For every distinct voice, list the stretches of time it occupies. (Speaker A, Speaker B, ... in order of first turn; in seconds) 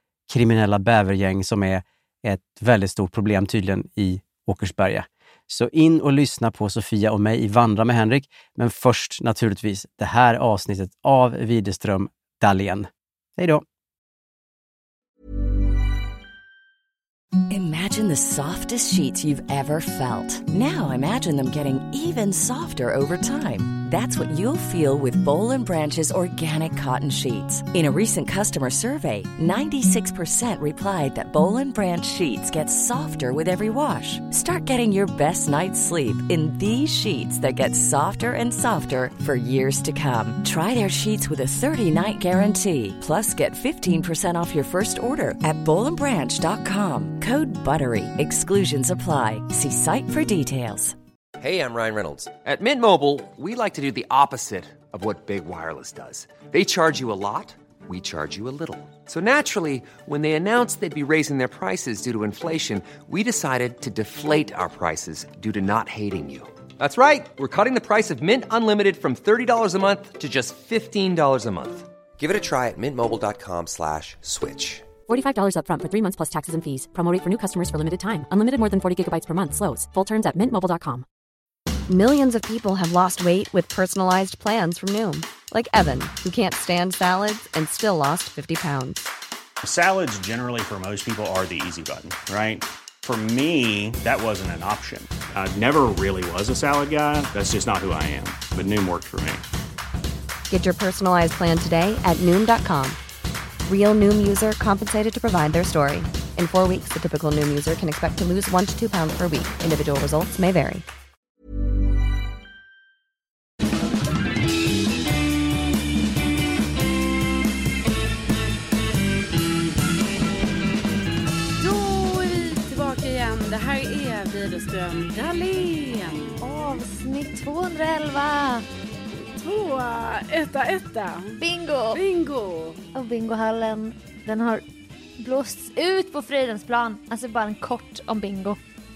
Speaker A: 0.3-13.6
Speaker B: 17.5-50.9
Speaker C: 51.4-74.9
Speaker D: 75.1-81.0
Speaker E: 81.9-89.1, 100.5-103.0, 103.6-110.8
Speaker F: 89.6-99.4
Speaker G: 121.6-126.4, 129.3-131.4, 131.9-132.8
Speaker H: 126.4-128.7, 131.4-132.0, 132.9-134.6, 135.2-138.6